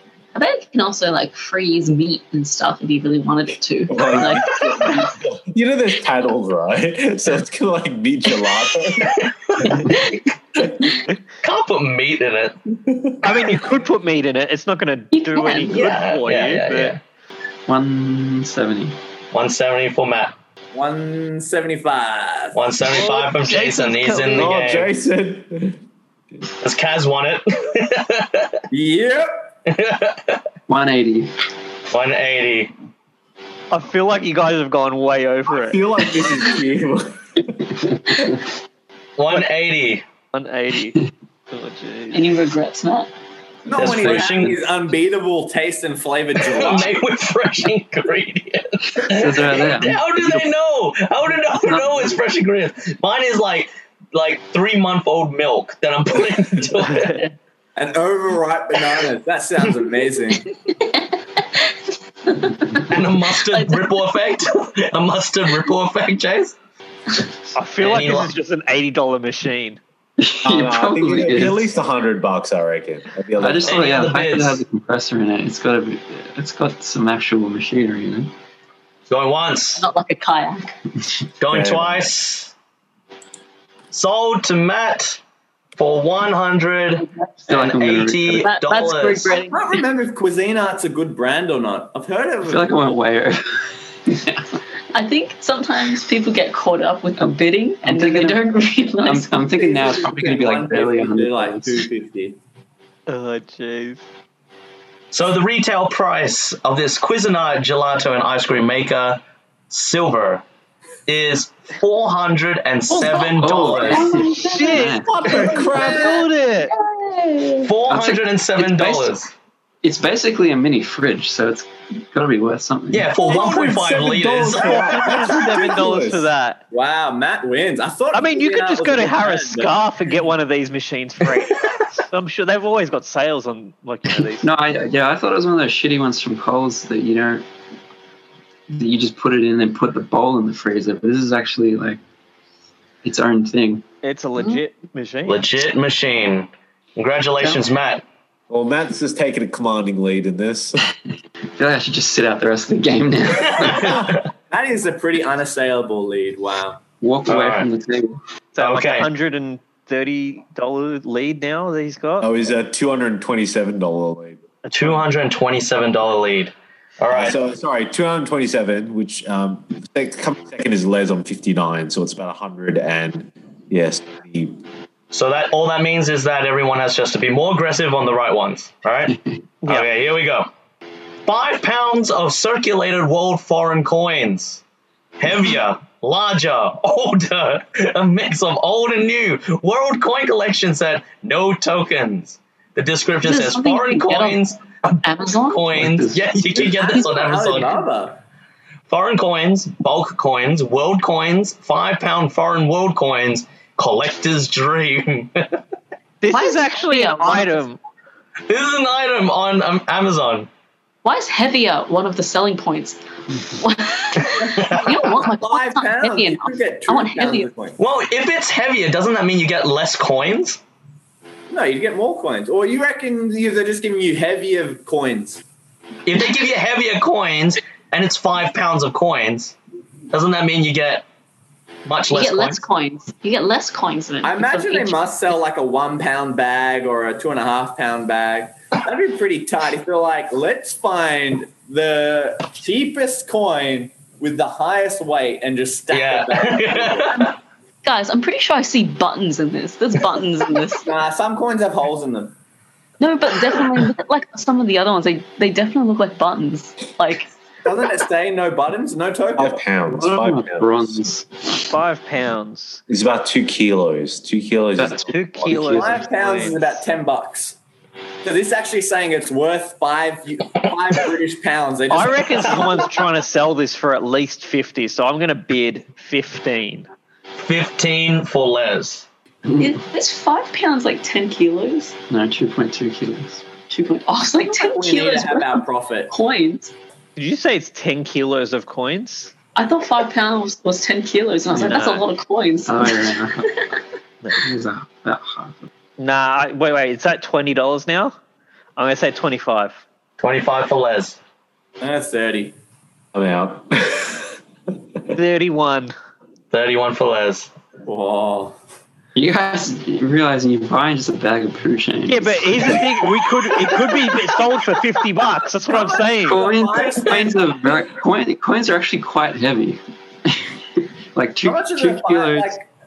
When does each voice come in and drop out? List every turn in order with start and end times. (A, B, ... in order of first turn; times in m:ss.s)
0:00.4-0:05.1 A
0:03.9-0:09.8 B
0:09.6-0:10.0 A
0:11.4-0:13.0 C
0:13.2-0:17.0 D
0:15.1-0:15.9 A
0:15.7-0:17.0 C
0:17.7-0:19.0 E
0:19.3-0:20.4 C
0:20.7-0:22.6 F
0:22.5-0:24.9 C
0:22.9-0:24.6 D
0:24.3-0:25.8 B
0:26.6-0:28.6 C
0:28.7-0:29.4 F
0:29.7-0:30.4 C
0:30.7-0:31.3 E
0:31.9-0:32.7 C
0:33.7-0:35.8 D
0:35.6-0:37.7 B
0:37.8-0:38.4 E
0:39.2-0:40.0 C
0:40.3-0:42.3 D
0:42.1-0:43.1 A
0:43.7-0:47.0 F
0:43.7-0:44.7 C
0:46.5-0:57.2 C
0:49.0-0:50.4 E
0:51.6-0:52.2 E
0:57.0-0:57.3 A
0:57.8-1:00.5 F
1:00.7-1:03.9 A
1:02.8-1:06.6 C
1:07.5-1:09.8 D
1:07.8-1:08.3 C
1:10.2-1:11.7 E
1:10.4-1:13.9 B
1:13.4-1:18.3 E
1:13.7-1:14.6 C
1:19.1-1:19.9 C
1:19.8-1:20.8 A
1:21.4-1:22.5 C
1:21.5-1:22.1 B
1:23.9-1:25.2 C
1:25.8-1:29.4 C
1:27.0-1:27.4 A
1:27.5-1:28.5 E
1:28.3-1:29.8 A
1:29.4-1:32.7 F
1:32.4-1:34.6 E
1:34.9-1:39.3 A
1:37.8-1:38.4 E
1:39.0-1:41.8 E
1:39.6-1:42.4 F
1:43.1-1:44.0 D
1:45.1-1:50.4 C
1:51.1-1:54.1 C
1:52.9-1:55.3 E
1:52.9-1:57.7 A
1:54.2-1:56.7 D
1:55.0-1:56.3 B
1:57.6-1:59.3 C
1:57.9-1:59.2 E
1:59.8-2:03.2 E
2:02.9-2:05.2 C
2:03.2-2:06.3 B
2:04.5-2:06.6 D
2:06.7-2:09.8 F
2:08.1-2:14.4 D
2:14.3-2:17.4 E
2:18.7-2:22.0 E
2:23.0-2:23.8 E
2:24.0-2:25.4 D
2:25.3-2:28.0 C
2:28.5-2:30.8 B
2:31.6-2:34.0 E
2:33.6-2:34.2 C
2:33.8-2:36.8 F
2:37.0-2:38.2 E
2:37.3-2:37.7 C
2:38.6-2:42.3 D
2:38.6-2:39.1 C
2:42.2-2:44.4 B
2:44.6-2:45.0 D
2:44.7-2:47.4 C
2:47.1-2:54.6 B
2:55.1-3:00.5 C
3:01.3-3:04.6 C
3:05.2-3:17.8 C
3:13.2-3:14.4 A
3:15.0-3:15.8 A
3:15.7-3:16.3 E
3:16.5-3:18.2 F
3:18.9-3:25.6 C
3:26.2-3:27.8 D
3:26.3-3:27.6 A
3:28.5-3:30.5 C
3:31.0-3:37.5 A
3:34.5-3:37.8 F
3:34.6-3:34.8 C
3:37.8-3:40.6 C
3:41.5-3:45.4 F
3:46.1-3:49.6 C
3:50.1-3:51.0 C
3:51.9-3:52.6 C
3:52.1-3:55.1 A
3:54.2-4:07.3 F
4:05.9-4:07.4 C
4:07.8-4:10.9 A
4:10.8-4:12.4 F
4:13.0-4:17.3 A
4:17.6-4:19.6 F
4:19.4-4:21.1 B
4:19.9-4:21.7 E
4:21.7-4:22.8 D
4:22.9-4:25.9 B
4:24.8-4:26.6 E
4:25.1-4:26.8 D
4:25.8-4:27.6 F
4:28.2-4:33.0 F
4:31.9-4:36.9 D
4:37.4-4:39.1 C
4:39.5-4:39.8 E
4:39.6-4:41.9 A
4:42.1-4:43.4 E
4:43.7-4:46.7 A
4:44.5-4:46.1 F
4:47.2-4:49.3 D
4:49.6-4:53.8 A
4:51.5-4:52.0 E
4:52.7-4:53.5 E
4:54.4-4:55.7 E
4:56.0-4:58.2 D
4:58.8-4:59.8 D
5:00.2-5:01.2 C
5:01.8-5:02.6 F
5:03.1-5:04.4 B
5:05.1-5:05.9 D
5:06.5-5:07.5 C
5:07.8-5:08.6 F
5:09.2-5:13.0 E
5:12.1-5:16.4 D
5:15.7-5:17.3 F
5:16.3-5:22.6 E
5:21.4-5:22.7 F